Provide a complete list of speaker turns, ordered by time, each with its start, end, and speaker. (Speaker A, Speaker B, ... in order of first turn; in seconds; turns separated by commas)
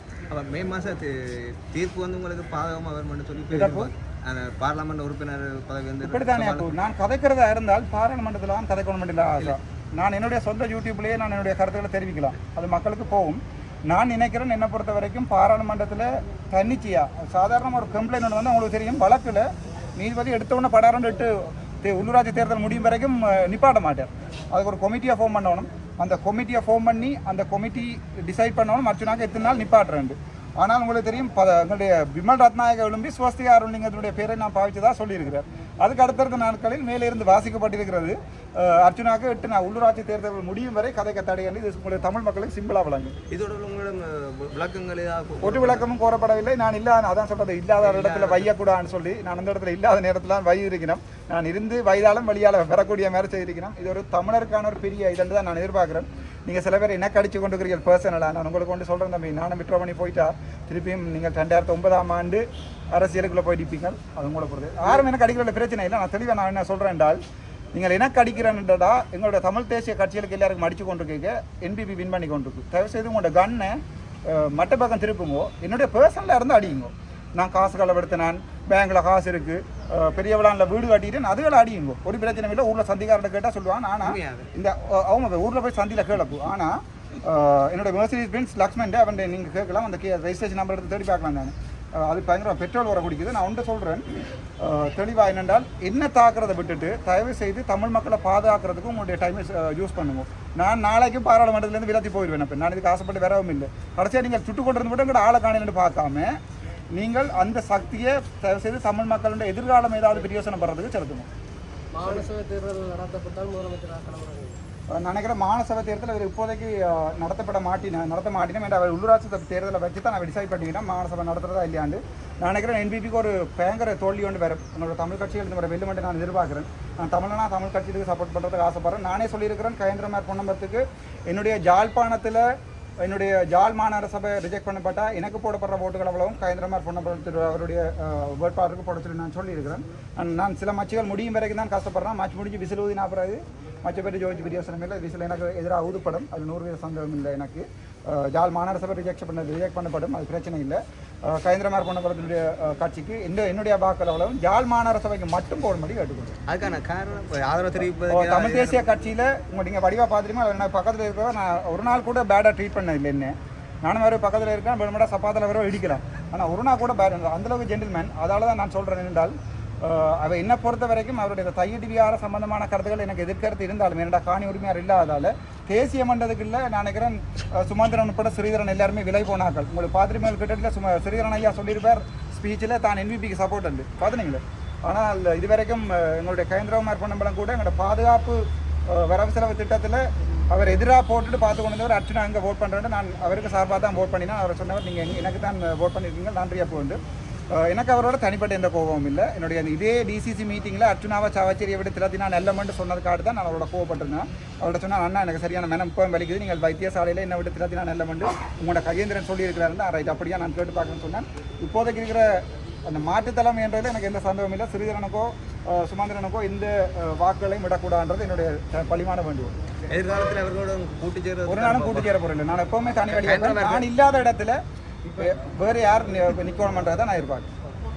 Speaker A: 0.3-6.8, Speaker B: 3.5-3.9, Speaker B: 6.0-43.1, Speaker A: 43.3-45.9, Speaker B: 45.4-67.2, Speaker A: 47.8-48.5, Speaker B: 67.7-106.3, Speaker A: 84.0-84.5, Speaker B: 106.9-111.3, Speaker C: 111.9-114.6, Speaker B: 114.9-132.5, Speaker B: 133.0-156.4, Speaker A: 156.5-158.8, Speaker B: 158.1-197.0, Speaker B: 197.5-219.5, Speaker A: 219.9-222.2, Speaker B: 221.5-224.6, Speaker A: 223.1-223.9, Speaker B: 225.1-227.5